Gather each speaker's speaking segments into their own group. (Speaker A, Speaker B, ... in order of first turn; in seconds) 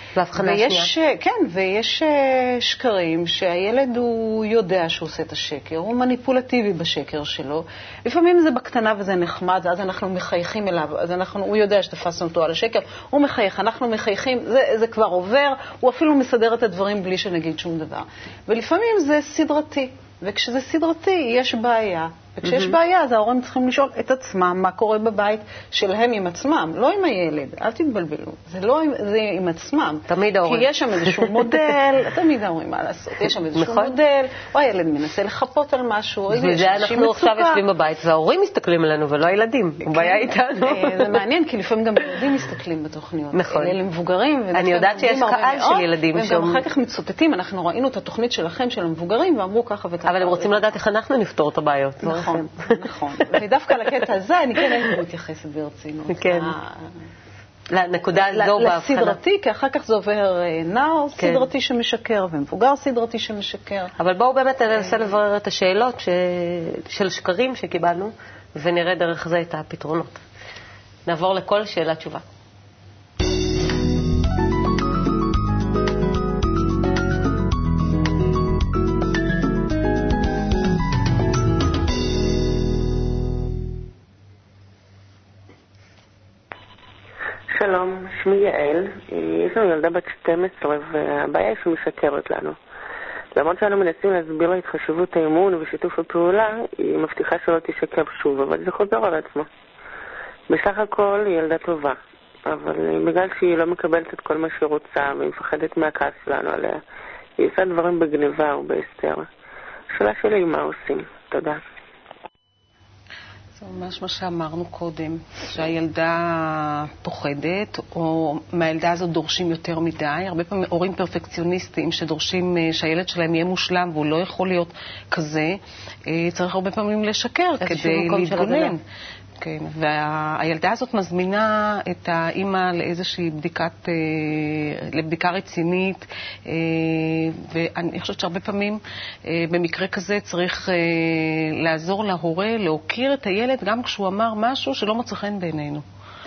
Speaker A: 0.1-0.9, 22.4-22.7, 30.1-31.6, 33.5-33.9, 36.3-41.2, 43.3-43.8, 44.5-46.6, 50.0-52.7, 56.1-56.5, 57.7-59.2, 61.2-61.5, 64.0-70.2, 71.1-72.2
Speaker B: 0.3-37.6, 39.9-50.7, 52.0-56.7, 58.1-63.9, 127.6-128.8
Speaker C: 87.5-92.6, 93.3-99.5, 100.5-106.8, 107.4-109.3, 109.9-111.6
Speaker D: 113.6-128.8, 129.4-145.8